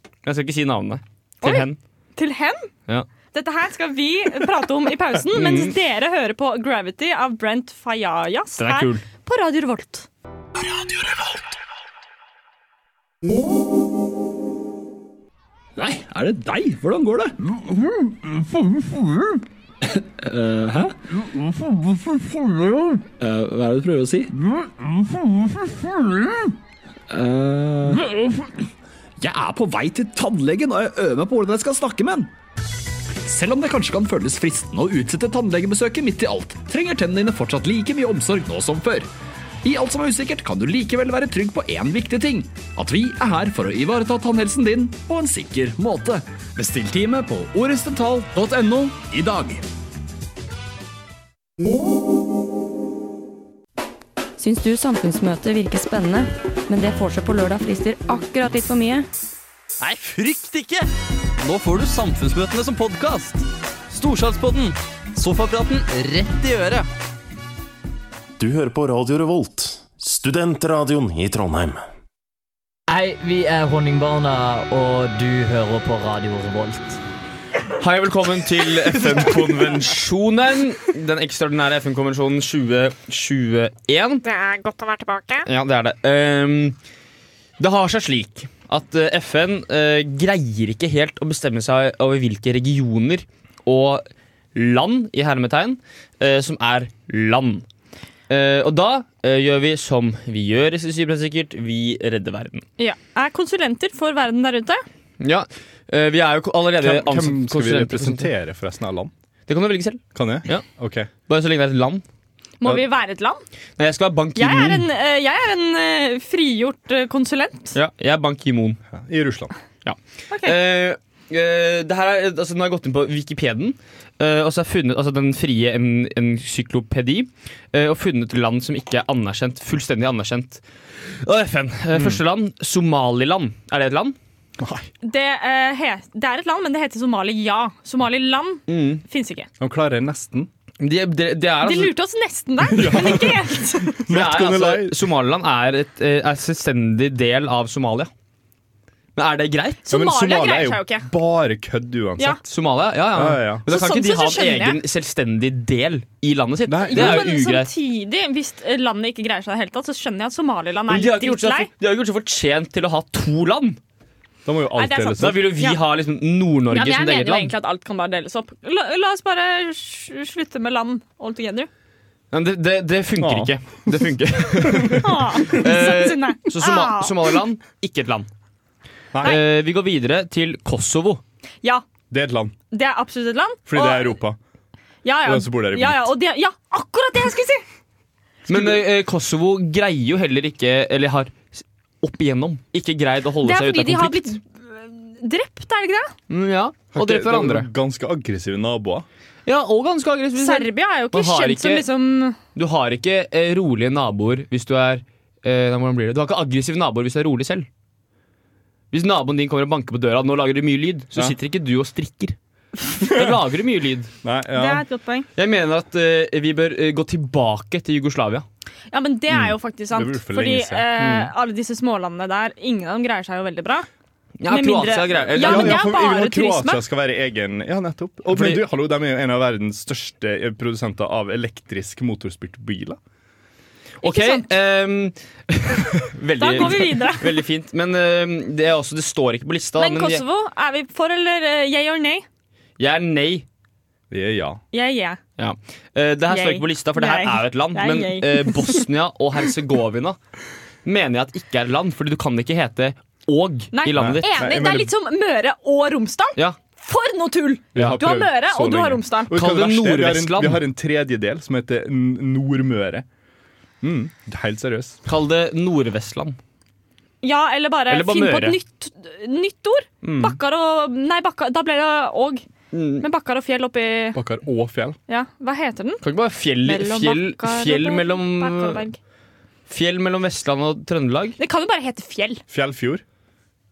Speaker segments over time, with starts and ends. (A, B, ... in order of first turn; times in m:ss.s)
0:00.2-0:01.8 A
0:01.4-0:02.7 B
0:03.3-0:10.1 B
0:05.3-0:05.7 A
0:08.6-0:09.0 A
0:10.6-0:11.4 C
0:15.8-0:26.5 C
0:27.1-0:28.5 C
0:29.2-0:32.3 C
0:33.2-0:39.1 C
0:39.6-0:49.6 C
0:54.4-0:59.1 D
0:59.8-1:00.9 E
1:01.4-1:06.8 E
1:08.4-1:11.8 F
1:12.9-1:17.0 G
1:17.8-1:24.2 A
1:24.2-1:25.5 B
1:25.4-1:26.8 A
1:27.6-1:37.6 A
1:38.3-1:42.6 A
1:42.8-1:44.8 B
1:45.2-1:48.3 A
1:46.8-1:49.1 H
1:49.5-1:50.6 A
1:50.1-1:51.1 H
1:51.3-1:52.0 A
1:52.6-1:53.4 B
1:53.8-1:54.8 A
1:54.4-1:57.7 B
1:57.7-1:58.8 A
1:58.9-1:59.5 H
1:59.8-2:14.2 A
2:00.3-2:00.6 B
2:11.9-2:12.2 H
2:14.6-2:14.9 H
2:15.0-2:19.5 B
2:18.7-2:19.0 A
2:19.6-2:20.5 H
2:20.8-2:21.9 A
2:21.6-2:24.0 B
2:22.7-2:25.0 H
2:24.1-2:28.1 A
2:29.2-2:29.8 A
2:29.8-2:31.1 B
2:29.9-2:32.4 H
2:32.4-2:37.7 A
2:33.1-2:33.6 H
2:33.7-2:34.8 B
2:36.7-2:37.3 H
2:36.9-2:41.7 B
2:40.9-2:43.8 A
2:44.4-2:45.5 H
2:44.7-2:45.8 B
2:45.2-2:47.5 A
2:46.7-2:51.7 B
2:52.3-2:58.3 A
2:53.2-2:55.2 H
2:55.0-2:57.4 B
2:59.1-2:59.4 H
2:59.2-3:01.2 A
3:02.1-3:02.5 H
3:02.7-3:04.2 B
3:03.7-3:04.4 H
3:05.0-3:07.6 B
3:05.2-3:06.1 H
3:08.5-3:08.8 H
3:08.5-3:14.4 A
3:13.4-3:16.1 B
3:16.3-3:17.7 A
3:16.9-3:19.0 H
3:19.4-3:21.8 A
3:20.4-3:22.4 B
3:22.5-3:27.7 A
3:28.9-3:32.4 A
3:33.0-3:34.1 A
3:33.0-3:33.4 H
3:34.2-3:34.8 H
3:34.5-3:35.3 B
3:35.4-3:38.4 A
3:38.9-3:43.9 B
3:39.3-3:40.9 H
3:41.0-3:41.3 A
3:44.4-3:45.8 A
3:44.5-3:46.8 B
3:45.4-3:53.0 H
3:48.3-3:48.6 A
3:54.0-4:00.2 A
3:54.0-3:54.5 B
3:56.4-3:57.4 B
3:59.8-4:02.2 B
4:02.8-4:03.4 A
4:04.1-4:04.6 H
4:04.7-4:05.2 B
4:05.4-4:10.2 A
4:06.3-4:08.9 B
4:10.8-4:14.4 A
4:13.7-4:19.3 B
4:13.9-4:14.9 H
4:17.7-4:23.0 H
4:19.3-4:20.6 A
4:23.8-4:25.0 H
4:25.0-4:26.4 A
4:27.2-4:32.4 B
4:27.9-4:28.6 A
4:30.0-4:30.4 A
4:32.7-4:33.0 A
4:33.0-4:34.2 B
4:34.1-4:35.0 H
4:35.1-4:36.0 B
4:36.0-4:38.8 A
4:36.6-4:39.0 B
4:39.7-4:41.4 A
4:41.4-4:42.4 B
4:42.5-4:43.0 H